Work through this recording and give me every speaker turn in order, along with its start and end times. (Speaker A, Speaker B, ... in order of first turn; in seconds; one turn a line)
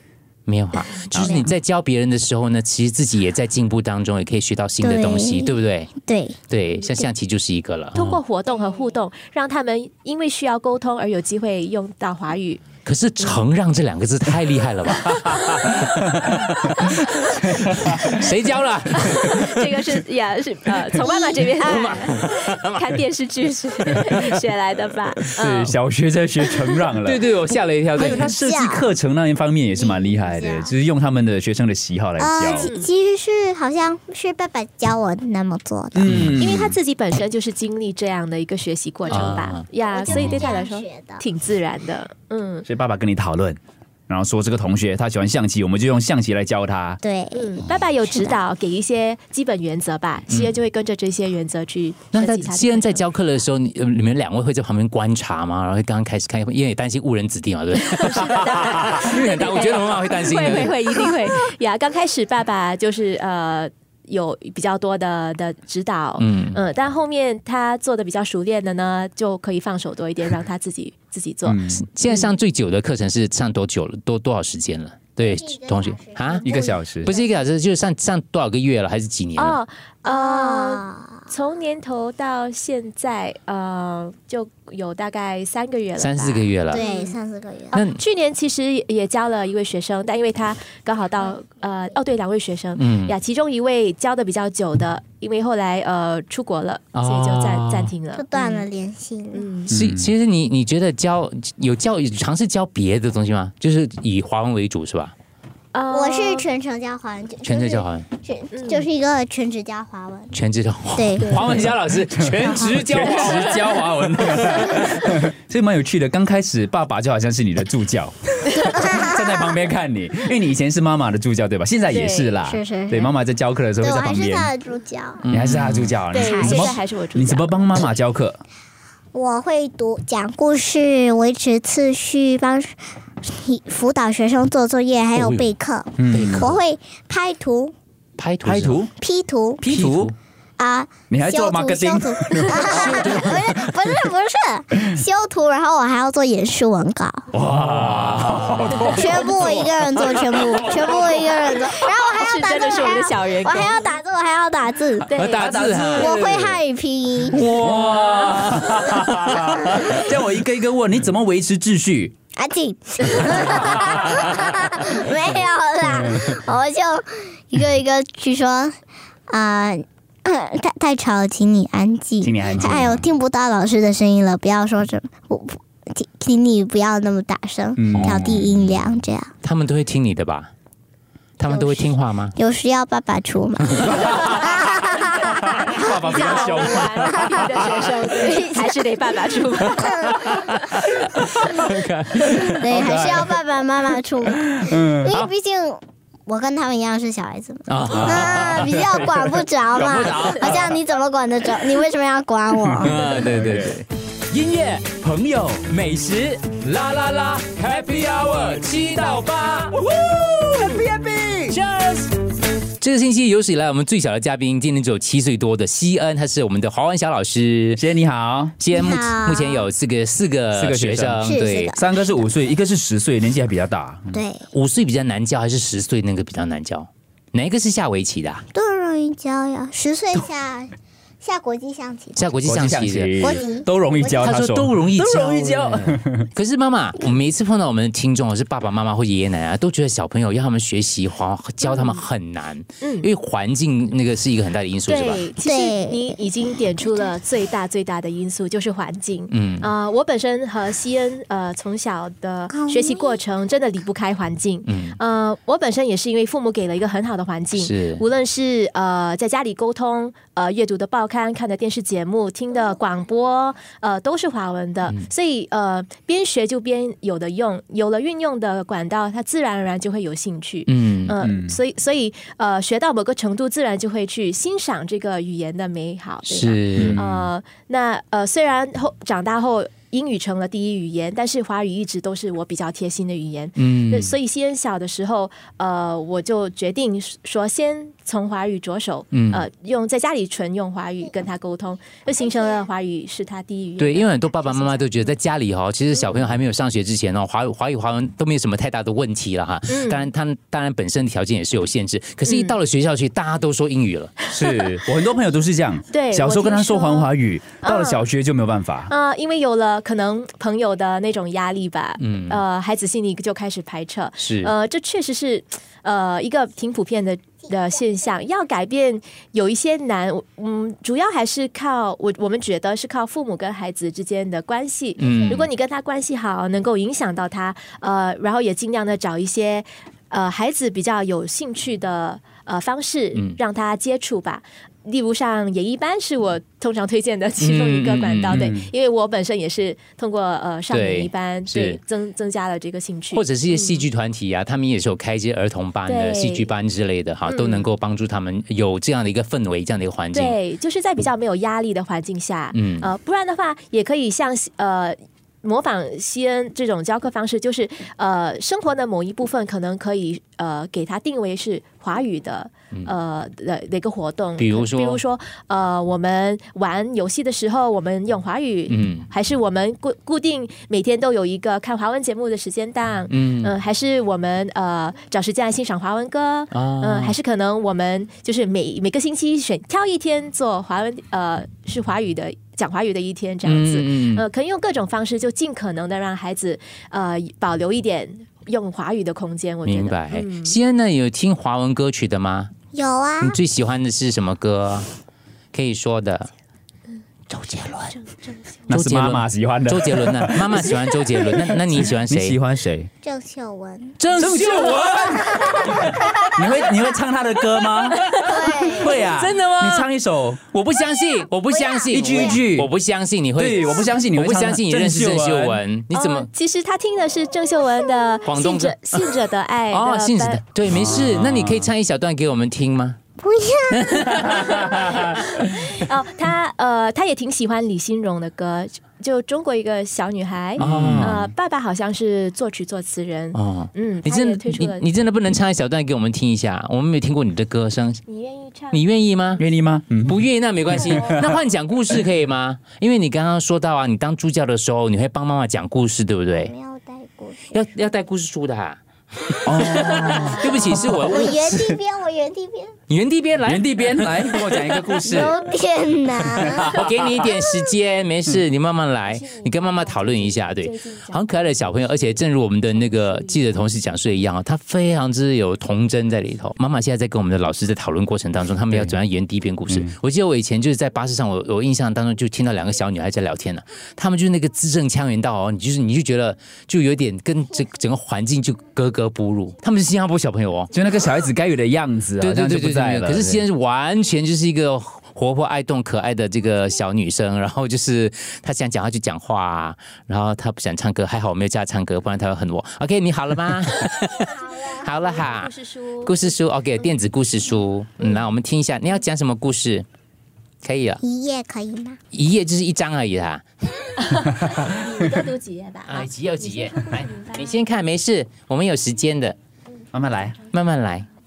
Speaker A: 0.5-5.9
Speaker B: 1.1-1.5
Speaker C: 4.8-6.4
Speaker A: 6.5-8.2
Speaker D: 7.9-12.6
Speaker A: 12.8-15.8
Speaker D: 15.2-15.7
Speaker B: 15.8-16.4
Speaker D: 16.6-17.4
Speaker B: 17.4-17.7
Speaker A: 17.9-19.7
Speaker D: 19.0-25.7
Speaker C: 21.0-21.5
Speaker A: 21.6-22.8
Speaker B: 25.4-27.2
Speaker A: 27.0-28.3
Speaker B: 27.9-32.7
Speaker C: 28.0-28.9
Speaker C: 29.8-30.7
Speaker C: 32.2-36.1
Speaker D: 32.5-32.9
Speaker B: 35.9-36.7
Speaker A: 36.1-36.4
Speaker D: 36.4-42.7
Speaker A: 39.1-39.6
Speaker C: 39.9-41.2
Speaker B: 40.1-40.4
Speaker B: 42.6-47.0
Speaker C: 47.0-48.4
Speaker D: 47.3-53.0
Speaker A: 52.1-60.8
Speaker D: 57.8-72.3
Speaker A: 66.2-66.6
Speaker B: 71.5-71.8
Speaker A: 71.8-79.6
Speaker C: 75.2-77.4
Speaker B: 76.4-77.1
Speaker D: 79.4-87.2
Speaker C: 80.0-81.3
Speaker A: 86.0-86.8
Speaker C: 86.7-87.8
Speaker A: 87.7-88.0
Speaker D: 87.7-98.7
Speaker A: 92.8-93.1
Speaker A: 96.9-97.9
Speaker C: 98.1-99.5
Speaker D: 99.3-99.7
Speaker B: 99.7-100.1
Speaker A: 99.7-105.1
Speaker D: 105.7-106.4
Speaker C: 105.9-110.4
Speaker A: 107.4-108.1
Speaker D: 108.5-108.9
Speaker A: 110.3-113.8
Speaker C: 111.0-111.4
Speaker B: 111.3-124.5
Speaker C: 112.5-112.8
Speaker D: 113.0-113.5
Speaker A: 114.3-114.6
Speaker C: 118.5-119.7
Speaker D: 121.9-122.4
Speaker C: 122.4-123.1
Speaker C: 123.8-125.2
Speaker A: 125.2-126.0
Speaker B: 125.3-128.4
Speaker D: 126.1-127.6
Speaker C: 126.2-126.7
Speaker C: 129.1-137.7
Speaker A: 135.1-135.5
Speaker B: 136.0-136.5
Speaker A: 136.1-136.6
Speaker A: 138.2-138.8
Speaker B: 138.4-138.9
Speaker C: 139.0-139.7
Speaker B: 139.6-140.1
Speaker A: 139.7-140.1
Speaker C: 140.6-147.2
Speaker B: 141.1-143.0
Speaker A: 142.5-143.6
Speaker B: 147.3-149.6
Speaker A: 147.7-149.0
Speaker C: 148.9-155.1
Speaker B: 150.2-150.8
Speaker D: 152.0-153.8
Speaker D: 155.1-155.5
Speaker A: 155.1-156.1
Speaker B: 155.3-156.6
Speaker C: 155.8-157.5
Speaker B: 157.3-162.1
Speaker A: 157.8-159.4
Speaker C: 162.3-168.7
Speaker B: 163.6-164.0
Speaker B: 165.9-166.3
Speaker C: 169.3-179.3
Speaker B: 172.2-173.1
Speaker B: 177.8-178.2
Speaker A: 178.0-180.5
Speaker A: 181.4-182.3
Speaker C: 181.5-188.8
Speaker B: 183.8-188.1
Speaker D: 185.8-190.2
Speaker C: 189.6-190.6
Speaker A: 189.7-192.7
Speaker B: 191.2-191.7
Speaker B: 192.3-193.4
Speaker C: 192.5-202.9
Speaker B: 194.5-195.2
Speaker A: 197.7-199.2
Speaker B: 197.9-199.0
Speaker A: 199.8-200.7
Speaker B: 199.8-200.7
Speaker B: 202.7-203.8
Speaker A: 202.8-204.9
Speaker B: 204.8-205.7
Speaker A: 205.7-209.9
Speaker A: 210.4-210.8
Speaker B: 210.6-211.3
Speaker A: 211.4-212.1
Speaker A: 212.8-217.8
Speaker B: 217.8-218.8
Speaker A: 218.6-221.8
Speaker C: 218.7-219.7
Speaker B: 220.5-224.2
Speaker C: 221.2-222.2
Speaker C: 224.1-224.5
Speaker A: 224.5-228.4
Speaker C: 228.5-232.5
Speaker A: 232.2-233.4
Speaker B: 232.4-236.3
Speaker C: 233.2-234.3
Speaker A: 234.2-245.2
Speaker D: 241.6-242.1
Speaker D: 242.8-243.1
Speaker D: 244.9-294.3
Speaker C: 245.4-247.1
Speaker A: 249.3-249.7
Speaker C: 252.5-253.2
Speaker A: 254.6-255.0
Speaker A: 257.6-258.0
Speaker A: 270.7-271.1
Speaker B: 271.2-271.6
Speaker A: 276.3-277.0
Speaker B: 276.8-277.3
Speaker A: 283.6-284.1
Speaker A: 289.1-289.4
Speaker C: 292.2-292.6
Speaker A: 293.8-304.1
Speaker D: 296.0-296.3
Speaker D: 299.7-300.1
Speaker D: 302.2-302.6
Speaker D: 304.3-304.7
Speaker B: 304.3-308.9
Speaker D: 305.9-307.1
Speaker D: 307.6-308.1
Speaker D: 308.9-343.9
Speaker A: 312.0-312.4
Speaker A: 314.2-314.5
Speaker A: 325.0-325.5
Speaker C: 325.0-325.3
Speaker A: 337.4-338.5
Speaker B: 338.3-338.7
Speaker A: 340.7-341.8
Speaker A: 343.1-350.4
Speaker D: 345.8-346.5
Speaker D: 347.3-347.7
Speaker D: 350.1-390.5
Speaker A: 352.5-352.9
Speaker A: 364.4-365.0
Speaker A: 368.7-369.1
Speaker A: 373.1-373.5
Speaker A: 376.5-377.2
Speaker A: 383.4-384.2
Speaker A: 389.6-392.5
Speaker C: 392.7-393.4
Speaker A: 393.2-394.9
Speaker A: 395.5-396.3
Speaker A: 397.3-397.9
Speaker D: 397.9-398.7
Speaker A: 398.7-402.4
Speaker B: 398.7-402.9
Speaker C: 403.0-404.0
Speaker A: 404.0-405.7
Speaker B: 404.1-410.5
Speaker C: 404.7-405.5
Speaker C: 408.2-409.1
Speaker A: 409.0-409.9
Speaker A: 410.5-416.3
Speaker C: 411.5-412.4
Speaker B: 411.9-412.7
Speaker B: 413.4-415.6
Speaker D: 415.9-420.4
Speaker A: 418.2-419.0
Speaker A: 419.7-423.0
Speaker B: 420.7-421.7
Speaker C: 423.2-424.3
Speaker A: 423.7-424.6
Speaker D: 424.6-424.8
Speaker D: 425.4-434.9
Speaker B: 430.6-431.2
Speaker A: 430.6-431.3
Speaker A: 433.3-438.0
Speaker D: 438.1-439.4
Speaker A: 438.7-439.4
Speaker B: 439.4-440.2
Speaker A: 440.1-446.5
Speaker B: 440.7-441.3
Speaker D: 440.7-441.1
Speaker C: 446.3-447.6
Speaker A: 447.5-451.8
Speaker B: 449.4-451.2
Speaker C: 449.4-452.8
Speaker A: 452.9-455.3
Speaker B: 453.4-455.3
Speaker C: 455.0-457.7
Speaker B: 456.3-456.9
Speaker A: 456.6-480.7
Speaker D: 460.6-461.2
Speaker B: 480.7-483.4
Speaker A: 482.2-495.5
Speaker D: 494.4-496.2
Speaker A: 496.0-499.9
Speaker A: 500.6-501.0
Speaker C: 501.0-502.0
Speaker A: 502.1-503.4
Speaker D: 504.0-507.6
Speaker A: 505.9-509.4
Speaker B: 509.9-510.4
Speaker A: 510.5-511.1